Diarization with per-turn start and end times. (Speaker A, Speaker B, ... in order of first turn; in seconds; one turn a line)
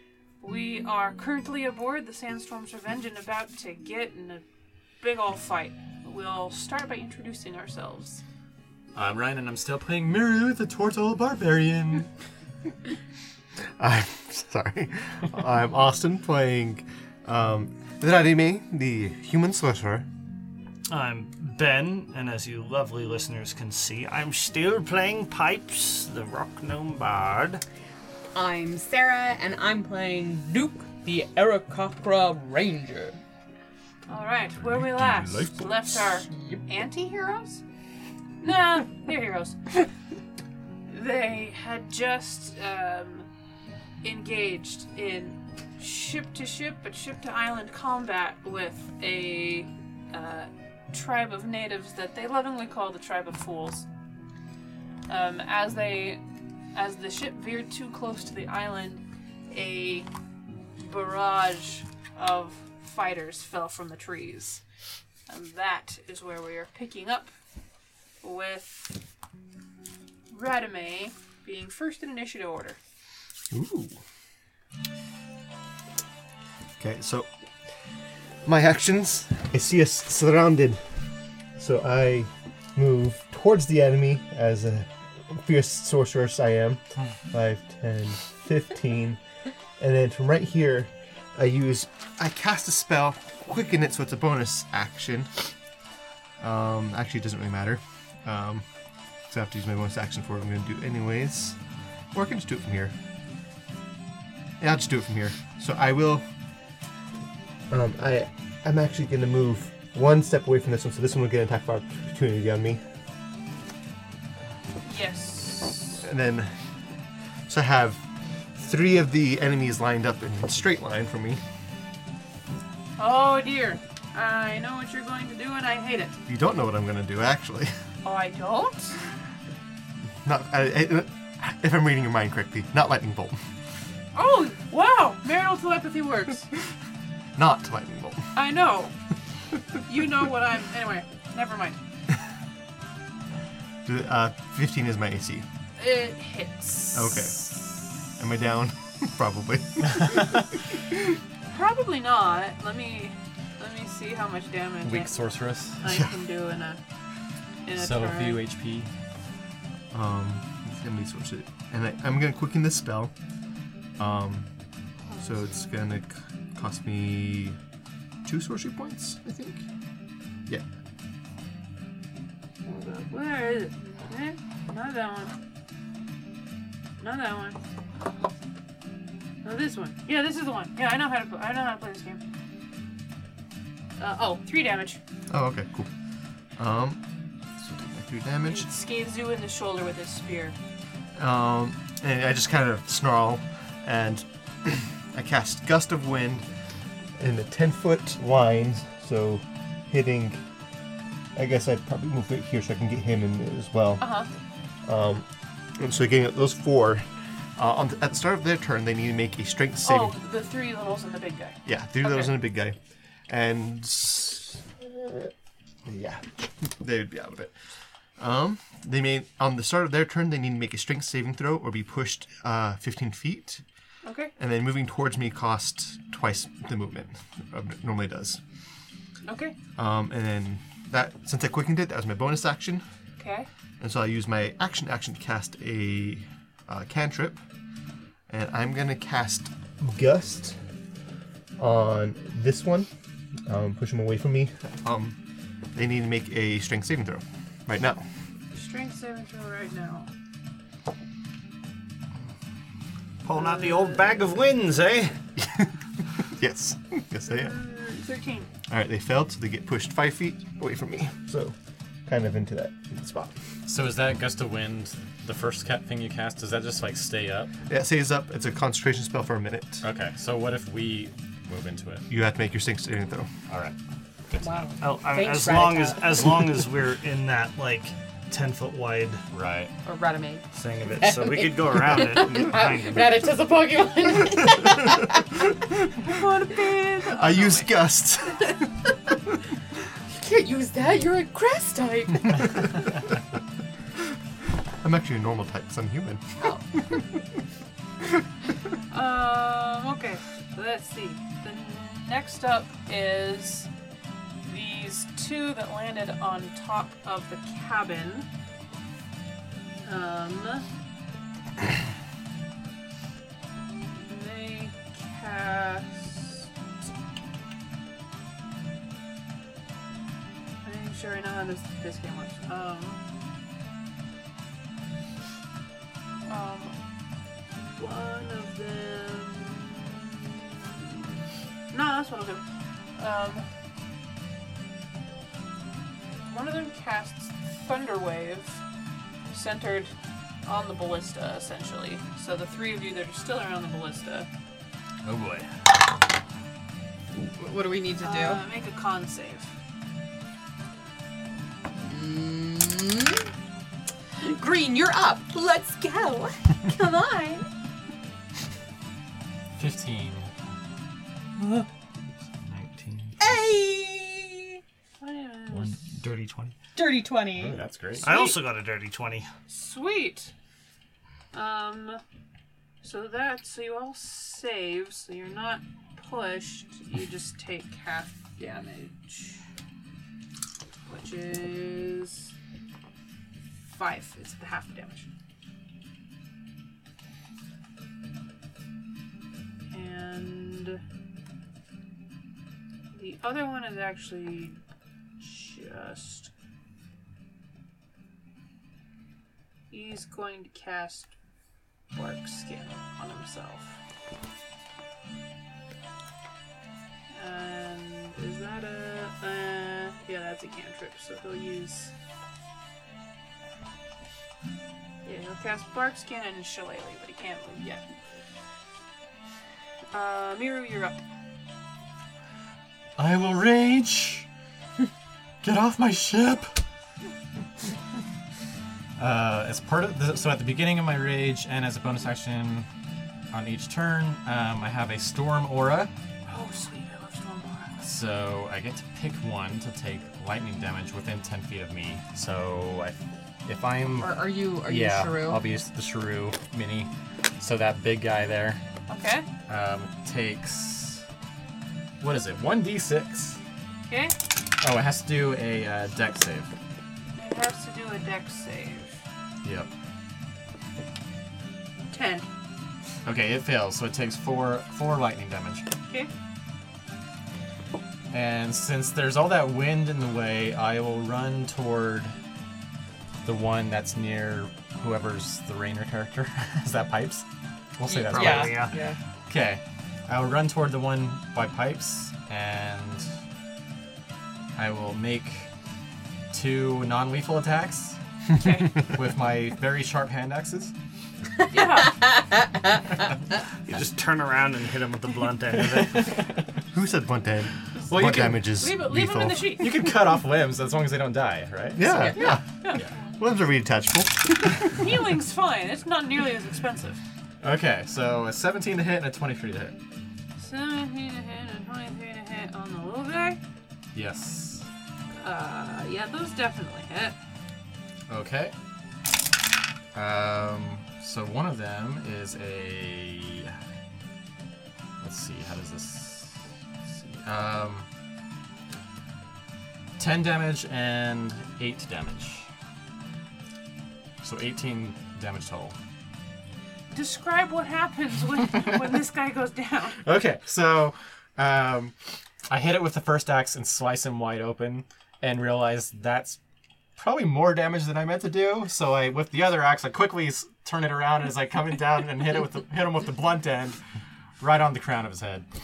Speaker A: 0.4-4.4
Speaker A: 5.0-8.2
Speaker B: 8.9-12.1
Speaker C: 13.8-20.1
Speaker D: 20.9-27.6
Speaker E: 28.3-33.2
Speaker A: 34.1-37.6
Speaker B: 34.7-35.4
Speaker E: 36.3-36.6
Speaker A: 38.4-39.9
Speaker A: 40.9-43.3
Speaker A: 44.0-53.9
Speaker A: 55.1-56.2
Speaker A: 56.7-60.1
Speaker A: 60.8-64.6
Speaker A: 65.3-67.3
Speaker A: 68.2-69.0
Speaker A: 70.3-72.8
Speaker C: 73.5-74.0
Speaker C: 76.8-77.3
Speaker C: 78.4-80.8
Speaker C: 81.6-89.2
Speaker C: 89.8-95.3
Speaker C: 96.4-98.6
Speaker C: 99.3-101.6
Speaker C: 102.1-102.9
Speaker C: 104.6-106.2
Speaker C: 107.7-112.8
Speaker A: 114.8-116.0
Speaker C: 116.0-116.5
Speaker C: 117.5-121.4
Speaker A: 123.0-126.2
Speaker C: 126.3-127.7
Speaker A: 128.0-129.0
Speaker C: 130.2-133.4
Speaker A: 134.1-136.5
Speaker C: 137.3-138.3
Speaker A: 138.3-138.9
Speaker A: 139.8-141.8
Speaker C: 143.8-145.4
Speaker A: 145.8-147.7
Speaker C: 146.9-150.4
Speaker A: 151.5-156.8
Speaker B: 154.8-155.8
Speaker C: 155.8-156.1
Speaker A: 157.6-158.4
Speaker B: 157.8-158.9
Speaker C: 159.9-163.1
Speaker C: 164.0-164.4
Speaker A: 165.1-165.7
Speaker C: 165.2-167.6
Speaker C: 168.2-169.7
Speaker A: 172.7-175.3
Speaker A: 177.0-177.6
Speaker A: 179.4-182.2
Speaker A: 184.0-185.0
Speaker C: 185.3-185.9
Speaker C: 186.6-187.0
Speaker C: 187.6-188.7
Speaker A: 188.4-190.6
Speaker C: 191.2-196.5
Speaker C: 197.2-200.4
Speaker C: 201.3-204.2
Speaker A: 204.0-204.3
Speaker C: 204.8-205.2
Speaker C: 205.8-210.2
Speaker A: 209.8-212.3
Speaker C: 211.7-212.8
Speaker C: 213.3-215.3
Speaker C: 215.8-217.6
Speaker C: 218.2-223.6
Speaker A: 224.0-224.3
Speaker C: 224.4-228.4
Speaker A: 229.2-229.6
Speaker C: 229.8-232.8
Speaker A: 233.2-233.5
Speaker C: 233.8-237.4
Speaker C: 238.3-240.6
Speaker C: 241.6-242.9
Speaker C: 243.5-245.2
Speaker C: 245.7-248.0
Speaker A: 248.5-250.1
Speaker D: 253.2-255.2
Speaker A: 253.3-254.3
Speaker C: 255.4-257.6
Speaker A: 257.3-258.5
Speaker C: 258.7-261.5
Speaker C: 262.1-263.3
Speaker B: 263.6-267.5
Speaker C: 267.7-269.8
Speaker B: 269.8-272.1
Speaker C: 272.1-273.3
Speaker B: 273.5-273.8
Speaker B: 274.3-274.7
Speaker E: 274.4-276.3
Speaker D: 274.8-279.2
Speaker B: 279.3-279.7
Speaker E: 279.8-285.2
Speaker D: 280.5-283.2
Speaker A: 286.0-287.7
Speaker C: 287.1-288.6
Speaker E: 290.1-292.7
Speaker C: 294.8-297.0
Speaker A: 298.9-303.7
Speaker A: 304.4-308.3
Speaker A: 309.8-310.6
Speaker A: 314.0-316.4
Speaker A: 320.6-323.0
Speaker A: 326.2-326.7
Speaker A: 327.5-331.0
Speaker A: 331.7-332.4
Speaker A: 333.0-333.4
Speaker A: 336.2-338.6
Speaker A: 339.3-339.9
Speaker A: 340.4-344.3
Speaker B: 345.0-345.5
Speaker E: 347.2-348.4
Speaker A: 348.0-349.5
Speaker E: 351.7-353.3
Speaker E: 354.2-357.4
Speaker B: 359.6-360.3
Speaker B: 362.4-363.1
Speaker E: 363.2-364.6
Speaker A: 365.0-365.8
Speaker D: 365.5-366.5
Speaker E: 366.7-367.6
Speaker B: 367.3-368.1
Speaker A: 368.0-368.4
Speaker D: 368.0-369.3
Speaker A: 369.5-370.3
Speaker A: 371.3-372.0
Speaker A: 372.8-379.4
Speaker A: 380.9-382.3
Speaker A: 383.7-385.1
Speaker A: 389.7-390.8
Speaker A: 392.9-394.6
Speaker A: 395.2-396.3
Speaker A: 399.7-401.1
Speaker A: 401.9-403.8
Speaker A: 407.1-411.9
Speaker A: 415.0-417.8
Speaker A: 419.9-421.0
Speaker B: 423.0-424.3
Speaker B: 425.4-426.6
Speaker B: 429.0-432.7
Speaker B: 433.3-435.9
Speaker A: 436.3-437.9
Speaker B: 437.8-448.6
Speaker E: 444.0-445.4
Speaker A: 448.9-449.2
Speaker B: 449.5-451.0
Speaker B: 452.0-453.4
Speaker A: 453.9-454.1
Speaker B: 454.6-456.5
Speaker A: 457.1-459.0
Speaker B: 459.4-459.7
Speaker A: 461.9-462.3
Speaker B: 463.0-465.6
Speaker B: 468.1-472.1
Speaker B: 473.2-477.2
Speaker B: 477.8-478.7
Speaker E: 477.9-478.9
Speaker D: 478.1-478.8
Speaker B: 479.3-483.1
Speaker B: 484.6-485.5
Speaker B: 486.3-488.0
Speaker A: 488.3-488.7
Speaker B: 488.8-490.7
Speaker A: 491.5-492.0
Speaker E: 491.9-492.6
Speaker D: 493.6-496.1
Speaker C: 496.7-499.4
Speaker A: 497.9-499.7
Speaker B: 497.9-498.4
Speaker B: 499.6-502.1
Speaker C: 501.8-502.4
Speaker A: 502.1-502.8
Speaker C: 503.2-504.8
Speaker A: 504.7-507.0
Speaker B: 507.4-509.7
Speaker A: 510.4-513.4
Speaker B: 513.9-514.7
Speaker A: 515.1-517.1
Speaker B: 518.1-518.5
Speaker B: 519.9-523.5
Speaker B: 525.0-527.9
Speaker B: 530.0-532.5
Speaker B: 534.2-535.7
Speaker A: 536.9-540.0
Speaker B: 540.0-541.9
Speaker B: 542.5-546.4
Speaker B: 547.0-553.8
Speaker B: 554.4-555.5